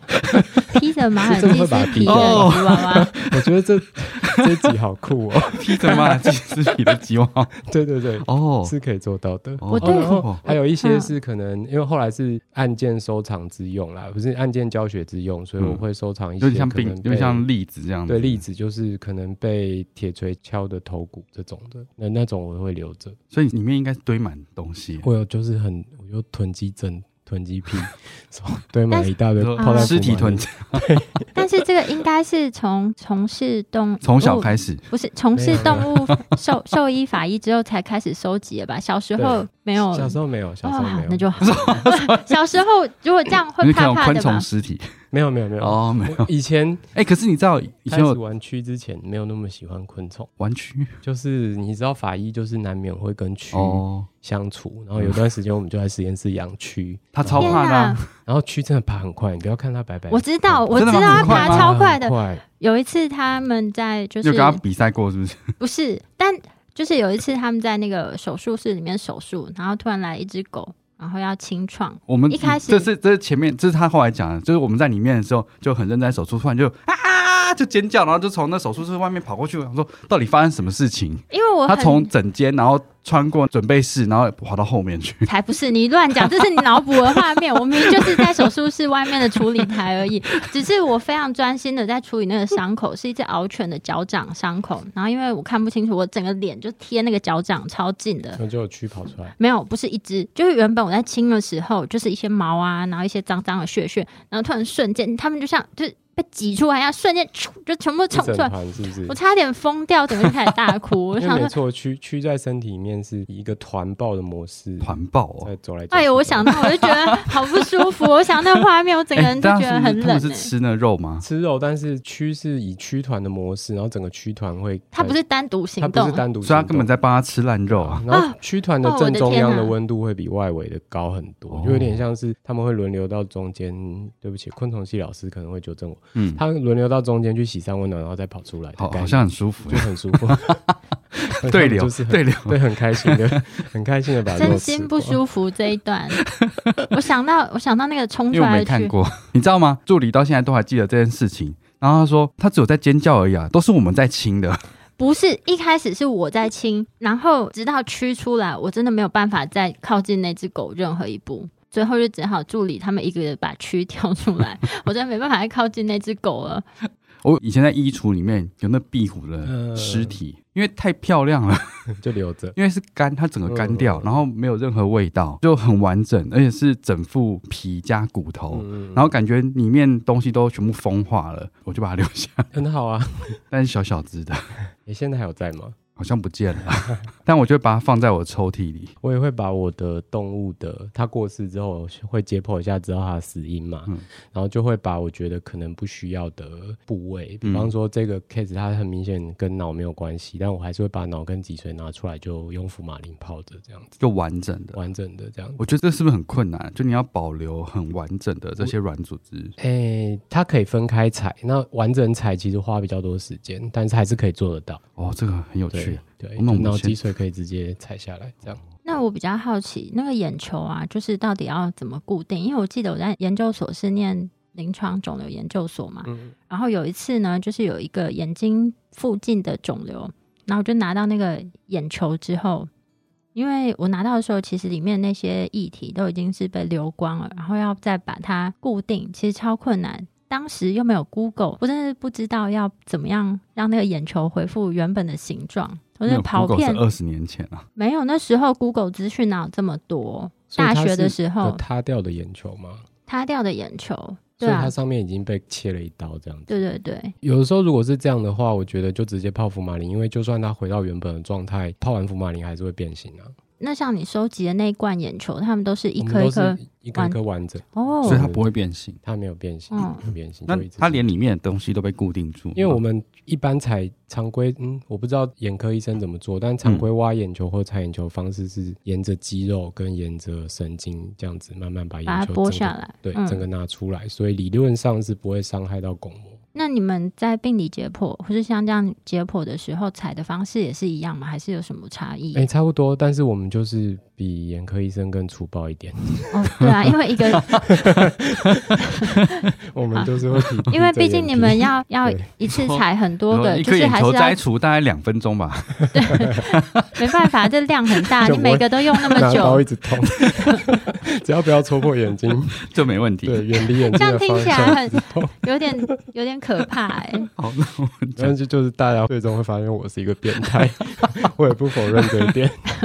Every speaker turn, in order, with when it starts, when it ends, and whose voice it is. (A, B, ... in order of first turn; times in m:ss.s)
0:00.3-0:00.6 A
0:00.3-0:00.6 B
0:00.7-0:03.1 C
0:01.2-0:07.0 B
0:02.1-0:03.5 A
0:05.5-0:07.6 A
0:07.6-0:17.4 B
0:08.2-0:08.7 A
0:09.6-0:10.4 A
0:09.8-0:11.1 C
0:16.4-0:18.4 A
0:18.1-0:23.2 B
0:23.3-0:25.0 A
0:25.0-0:31.3 B
0:28.9-0:30.0 C
0:29.4-0:30.8 A
0:31.3-0:44.4 C
0:34.0-0:34.9 A
0:35.3-0:35.9 B
0:35.6-0:35.9 A
0:39.2-0:41.7 B
0:41.4-0:42.4 A
0:43.6-0:44.9 A
0:45.1-0:46.9 B
0:45.6-0:46.3 A
0:46.9-0:48.2 A
0:47.9-0:50.3 B
0:50.4-0:51.0 A
0:51.0-0:57.6 B
0:53.5-0:54.1 A
0:57.1-0:58.1 A
0:57.4-0:58.0 C
0:58.1-1:02.4 B
1:00.1-1:04.6 C
1:00.7-1:01.9 A
1:04.2-1:05.5 A
1:05.6-1:12.9 C
1:12.1-1:25.3 A
1:21.3-1:22.1 C
1:25.2-1:38.4 C
1:27.2-1:28.5 A
1:38.4-1:39.3 B
1:39.4-1:48.5 C
1:48.1-1:49.2 B
1:49.0-1:51.5 C
1:51.2-1:56.6 B
1:54.8-1:55.5 A
1:55.9-2:00.5 C
1:56.5-1:57.3 A
1:59.1-2:01.2 A
2:01.2-2:05.2 B
2:04.9-2:06.2 C
2:05.8-2:06.9 B
2:06.4-2:08.0 A
2:07.7-2:20.6 B
2:08.1-2:09.7 C
2:11.5-2:12.0 A
2:16.2-2:16.4 A
2:18.8-2:23.4 A
2:21.4-2:25.2 B
2:24.4-2:26.2 C
2:26.3-2:26.9 A
2:26.9-2:28.9 C
2:28.3-2:34.6 A
2:35.0-2:46.6 C
2:47.2-2:51.9 A
2:49.4-2:50.2 B
2:51.9-2:52.6 B
2:52.6-3:02.5 A
2:53.5-2:54.1 B
2:58.5-2:59.1 B
3:02.5-3:03.4 B
3:03.5-3:04.5 A
3:04.8-3:05.8 B
3:06.0-3:08.9 A
3:09.0-3:24.0 B
3:17.4-3:17.7 A
3:24.0-3:24.8 A
3:24.7-3:25.6 B
3:25.6-3:29.5 A
3:29.6-3:34.8 B
3:35.0-3:37.0 A
3:35.7-3:38.6 B
3:38.8-3:52.7 C
3:46.0-3:46.3 B
3:53.3-4:06.8 C
4:06.0-4:07.6 A
4:07.8-4:11.6 C
4:10.5-4:12.8 B
4:13.1-4:14.7 C
4:14.4-4:16.6 B
4:16.5-4:17.1 C
4:17.2-4:23.4 B
4:23.6-4:27.2 C
4:26.0-4:28.4 B
4:27.7-4:28.3 C
4:28.0-4:29.0 A
4:29.0-4:31.0 B
4:29.7-4:30.0 C
4:30.5-4:32.8 A
4:32.5-4:46.4 B
4:42.0-4:43.4 C
4:46.5-4:52.4 C
4:52.3-4:56.6 B
4:56.3-4:57.5 C
4:57.4-4:57.7 A
4:57.4-4:58.8 B
4:58.8-4:59.1 C
4:59.7-5:02.2 B
5:00.7-5:04.4 C
5:02.4-5:07.0 A
5:05.9-5:09.6 C
5:06.1-5:06.4 B
5:08.2-5:12.6 B
5:10.2-5:10.5 A
5:12.6-5:13.8 A
5:13.2-5:16.0 B
5:14.0-5:17.3 C
5:17.4-5:18.3 A
5:18.2-5:22.6 B